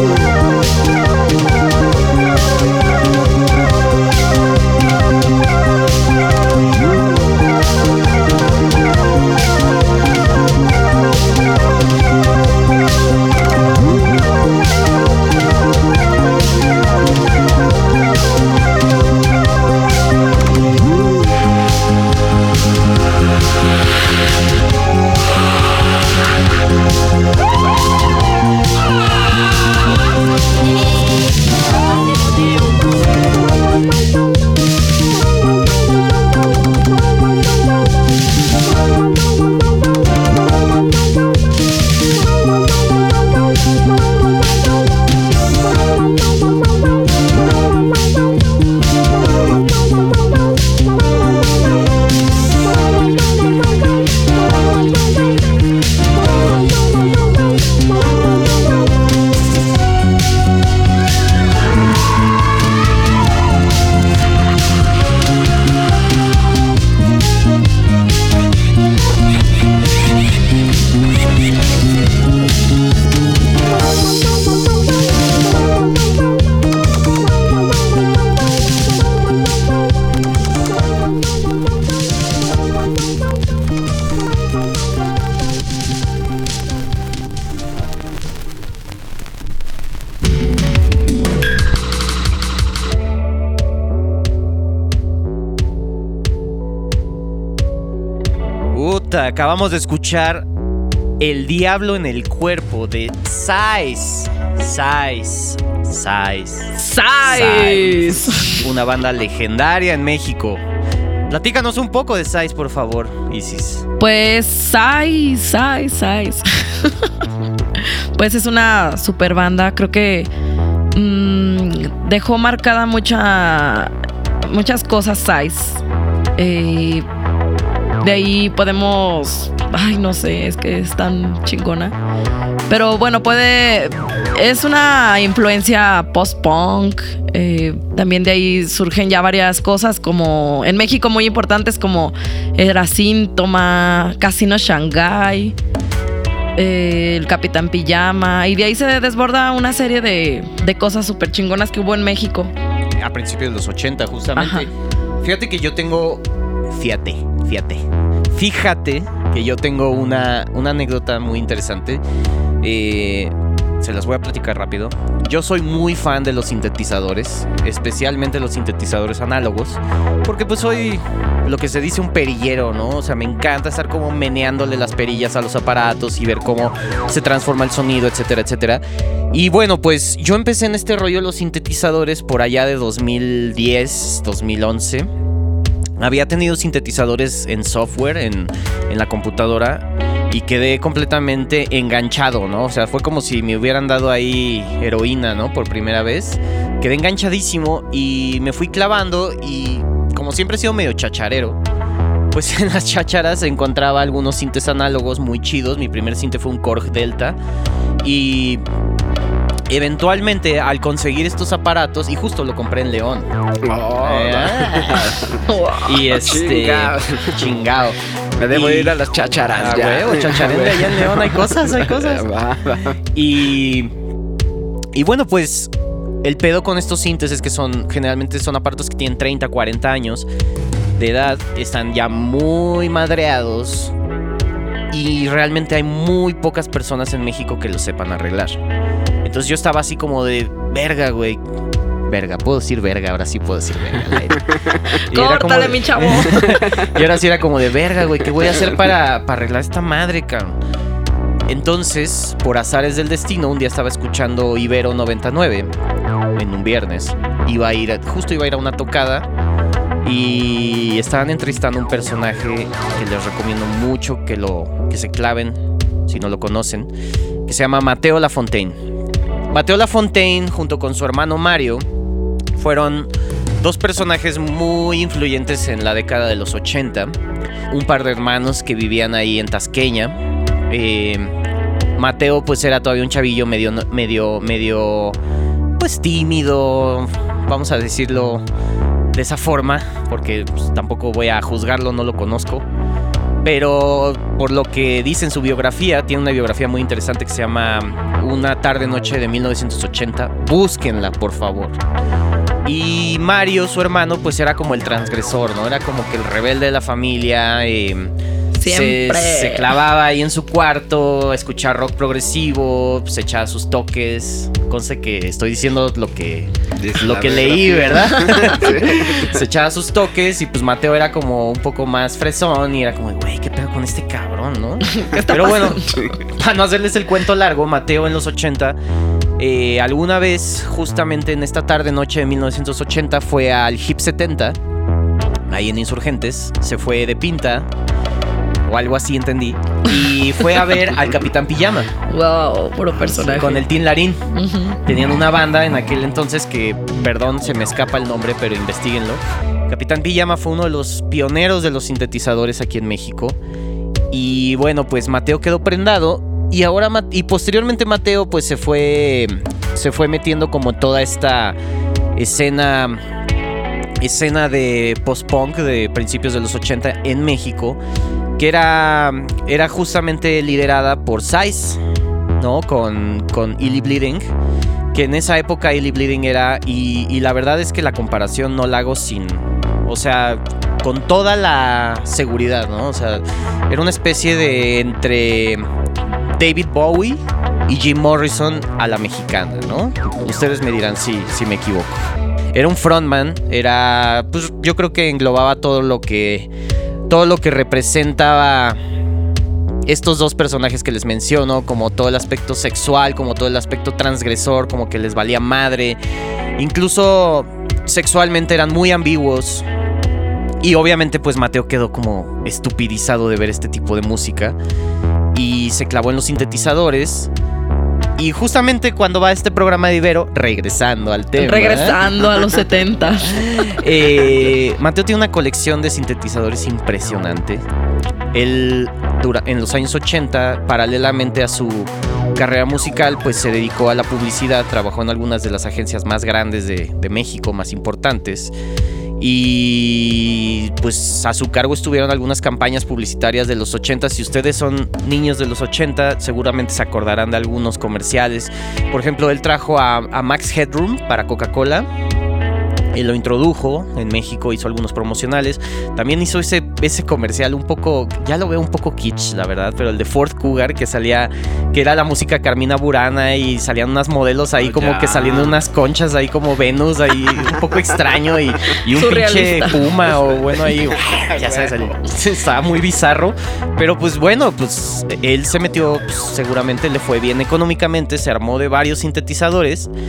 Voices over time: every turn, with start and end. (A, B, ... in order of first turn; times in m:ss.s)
1:38.7-1:40.4 A
1:41.2-1:50.6 A
1:46.8-1:48.6 B
1:51.3-1:53.8 A
1:54.0-1:57.1 B
1:58.2-2:00.3 B
2:00.9-2:03.9 B
2:04.4-2:05.8 B
2:06.4-2:07.1 B
2:08.0-2:11.9 B
2:12.7-2:25.6 B
2:26.6-2:32.5 B
2:33.0-2:42.0 A
2:34.4-2:34.7 B
2:42.6-3:05.1 A
3:06.0-3:21.6 A
3:22.3-3:27.4 A
3:28.0-3:28.6 A
3:29.7-3:33.3 A
3:33.6-3:35.4 C
3:34.0-3:35.1 A
3:35.5-3:35.9 B
3:35.8-3:38.0 A
3:36.0-3:37.5 C
3:38.4-3:43.0 C
3:38.5-3:42.3 A
3:43.1-3:43.9 A
3:44.9-3:45.7 A
3:46.2-3:50.3 A
3:51.0-3:53.9 A
3:54.9-3:58.6 A
3:59.2-4:01.4 A
4:02.1-4:04.5 A
4:05.1-4:10.6 A
4:05.1-4:06.4 B
4:11.5-4:15.7 A
4:16.3-4:19.3 A
4:20.0-4:26.9 A
4:27.4-4:28.8 A
4:29.5-4:31.8 A
4:32.6-4:37.2 A
4:37.7-4:40.2 A
4:40.7-4:41.3 A
4:42.0-4:45.2 A
4:45.8-4:48.4 A
4:49.1-4:52.6 A
4:53.4-5:01.8 A
5:02.6-5:08.1 A
5:08.5-5:09.7 B
5:08.6-5:28.8 A
5:16.8-5:19.4 C
5:25.0-5:25.7 B
5:29.4-5:34.6 A
5:35.5-5:37.7 A
5:38.7-5:41.9 A
5:42.1-5:43.6 B
5:43.0-5:44.2 A
5:44.3-5:44.8 B
5:44.8-5:53.4 A
5:54.1-6:01.6 A
6:02.2-6:03.0 A
6:04.0-6:07.8 A
6:08.4-6:11.8 A
6:12.4-6:14.3 A
6:14.9-6:25.7 A
6:26.4-6:32.0 A
6:32.5-6:36.5 A
6:37.1-6:38.8 A
6:39.8-6:46.0 A
6:46.6-6:49.7 A
6:50.6-6:54.6 A
6:55.3-6:57.3 A
6:58.2-7:02.0 A
7:01.4-7:03.5 B
7:03.3-7:07.6 A
7:08.3-7:18.5 A
7:19.2-7:31.9 A
7:32.9-7:59.9 A
7:44.6-7:45.6 C
7:48.9-7:49.8 B
7:50.1-7:51.9 C